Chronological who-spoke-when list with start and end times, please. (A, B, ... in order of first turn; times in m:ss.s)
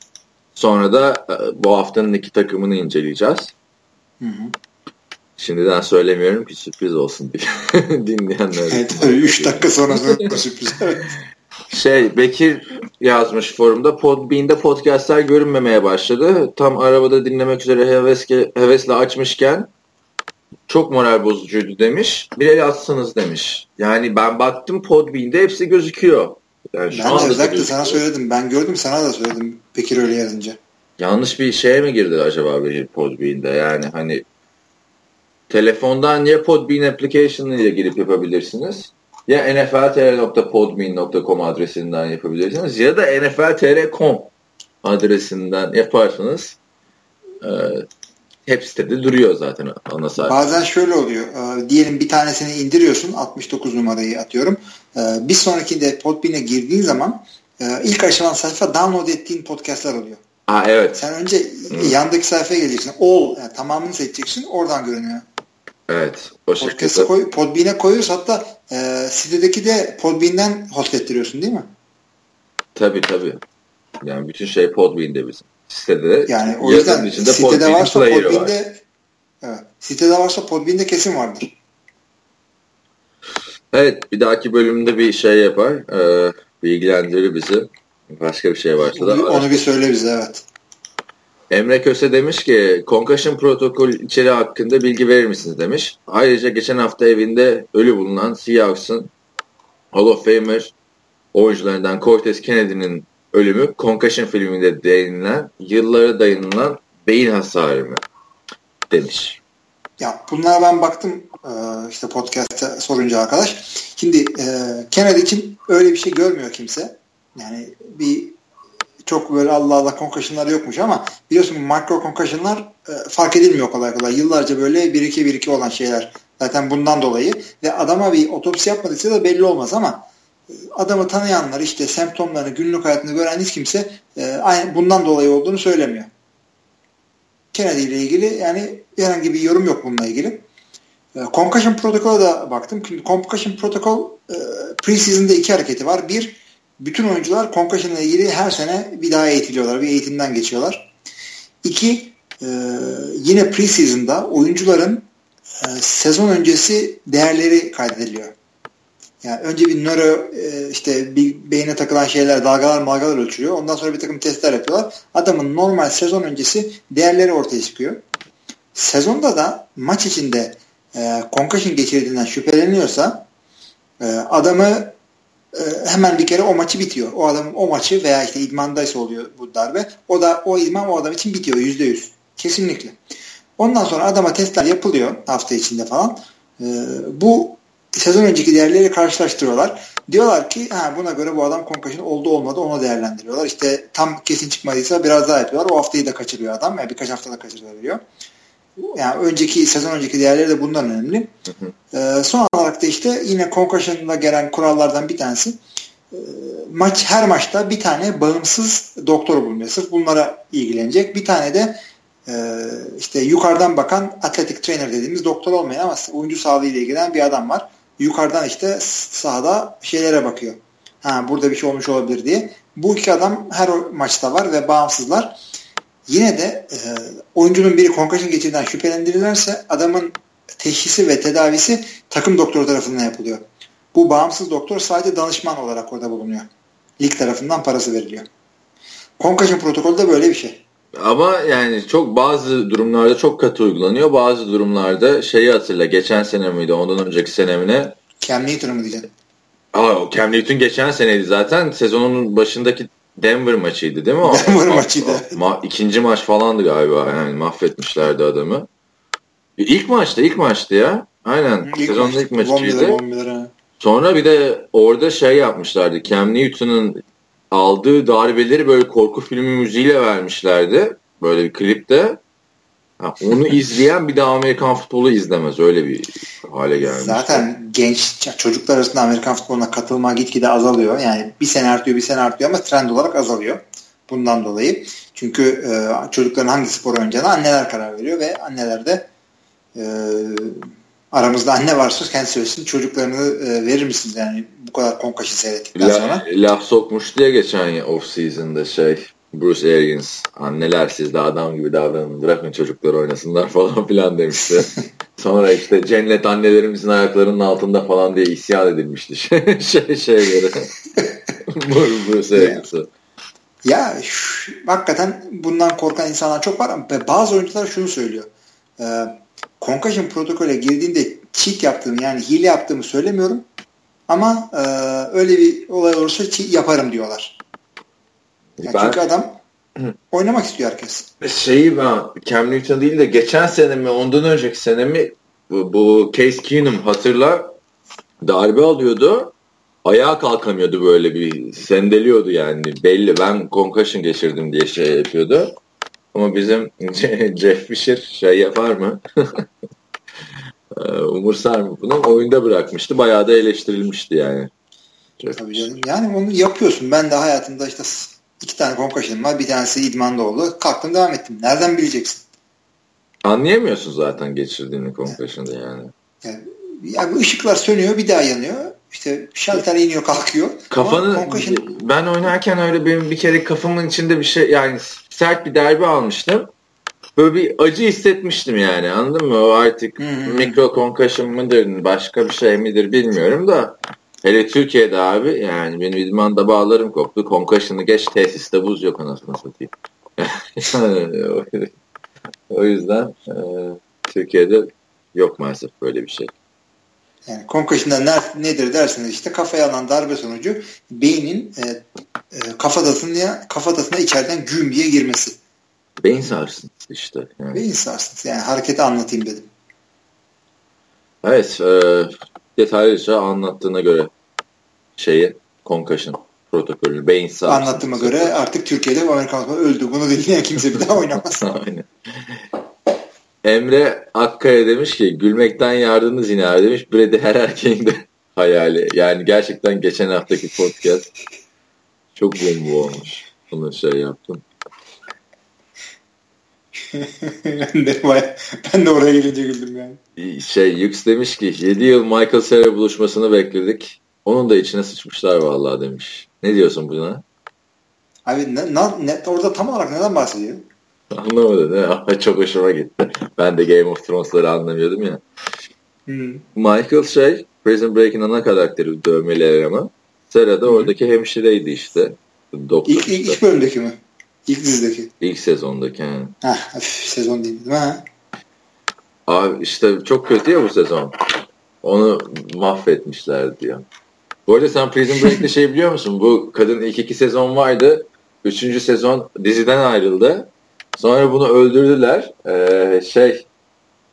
0:00.5-0:03.5 A
0:04.2-0:04.5 B
0:05.4-0:10.4 A
0:08.7-0:11.1 B
0:11.7-0:19.7 A
0:20.7-0:28.0 A
0:26.9-0:30.6 B
0:31.0-0:34.2 A
0:35.5-0:44.3 A
0:44.8-0:46.6 A
0:47.4-0:47.9 A
0:48.4-0:50.6 A
0:50.2-1:00.2 B
1:00.5-1:01.0 A
1:00.9-1:05.2 B
1:01.7-1:01.9 A
1:05.9-1:07.1 A
1:06.6-1:11.7 B
1:12.7-1:13.4 A
1:14.0-1:18.5 A
1:16.3-1:18.8 B
1:19.4-1:21.5 B
1:23.7-1:29.6 A
1:28.8-1:30.4 B
1:31.5-1:39.1 A
1:39.9-1:40.7 A
1:41.3-1:48.0 A
1:48.9-1:49.4 A
1:50.0-1:58.4 B
1:59.0-2:16.1 B
2:17.5-2:20.4 B
2:21.2-2:30.9 B
2:31.6-2:35.0 B
2:35.6-2:38.3 B
2:39.2-2:48.0 B
2:48.7-2:53.2 B
2:54.0-2:54.9 B
2:55.5-3:03.0 B
3:03.6-3:18.0 B
3:18.8-3:21.3 B
3:21.9-3:25.6 B
3:26.1-3:45.4 B
3:46.1-3:56.5 B
3:57.0-3:58.3 B
3:59.2-4:00.6 B
4:01.0-4:07.9 A
4:08.2-4:09.1 B
4:09.7-4:18.7 A
4:14.2-4:15.3 B
4:19.6-4:23.0 A
4:21.6-4:23.5 B
4:23.8-4:32.2 A
4:33.0-4:37.4 A
4:36.8-4:49.1 B
4:49.7-4:56.2 B
4:55.8-5:10.7 A
5:11.5-5:12.9 A
5:12.3-5:12.6 B
5:13.6-5:23.4 B
5:24.1-5:27.4 B
5:28.6-5:29.0 A
5:28.6-5:29.4 B
5:30.1-5:31.1 B
5:31.2-5:37.5 A
5:38.2-5:39.3 A
5:39.8-5:45.5 A
5:46.1-5:49.5 A
5:50.7-5:54.5 A
5:55.2-5:55.7 A
5:55.4-6:02.2 B
6:03.2-6:05.9 A
6:06.2-6:11.7 B
6:10.7-6:16.5 A
6:17.2-6:31.7 A
6:20.0-6:20.6 B
6:32.5-6:36.3 A
6:37.2-6:45.4 B
6:46.0-6:47.6 A
6:47.5-6:49.5 B
6:51.2-6:54.1 A
6:55.0-6:58.4 A
6:57.5-7:01.4 B
7:01.2-7:02.4 A
7:03.4-7:11.1 A
7:12.2-7:14.4 A
7:16.8-7:20.0 B
7:20.2-7:27.2 A
7:28.2-7:30.6 B
7:31.1-7:35.2 A
7:36.1-7:36.4 B
7:36.5-7:43.4 A
7:40.6-7:40.9 B
7:42.8-7:45.1 B
7:45.2-7:46.3 A
7:46.4-7:48.0 B
7:49.3-7:51.2 A
7:51.8-7:53.8 A
7:54.5-8:03.5 A